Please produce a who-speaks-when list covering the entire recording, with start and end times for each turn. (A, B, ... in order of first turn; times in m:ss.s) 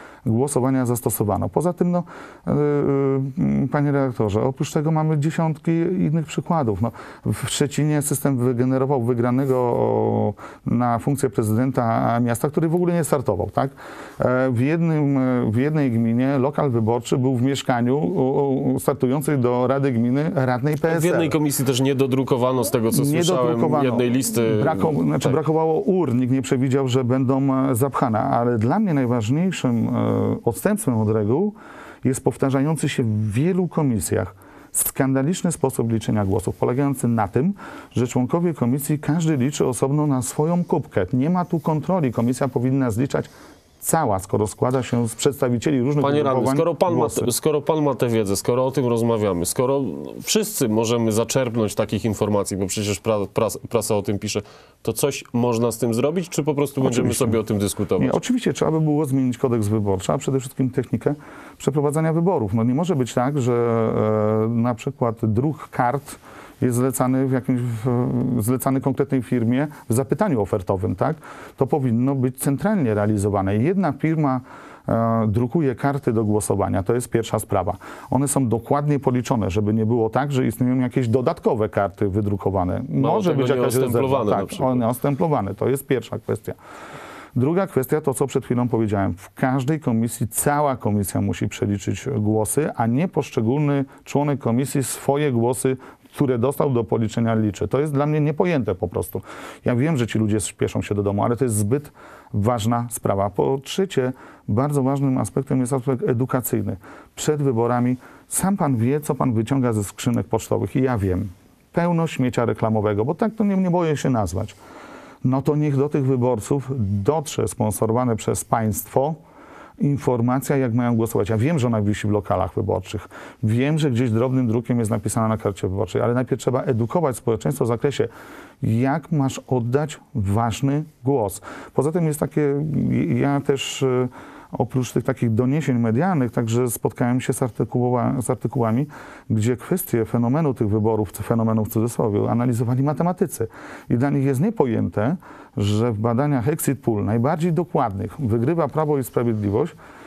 0:00.2-0:21.4 A
0:20.8-0:25.4 B
0:22.9-0:43.3 A
0:43.8-0:47.3 A
0:46.0-0:58.2 B
0:56.8-0:57.4 A
0:58.0-1:26.6 A
1:23.0-1:24.8 B
1:27.3-1:54.6 A
1:55.2-1:59.2 A
1:59.8-2:08.1 A
2:08.6-2:29.7 A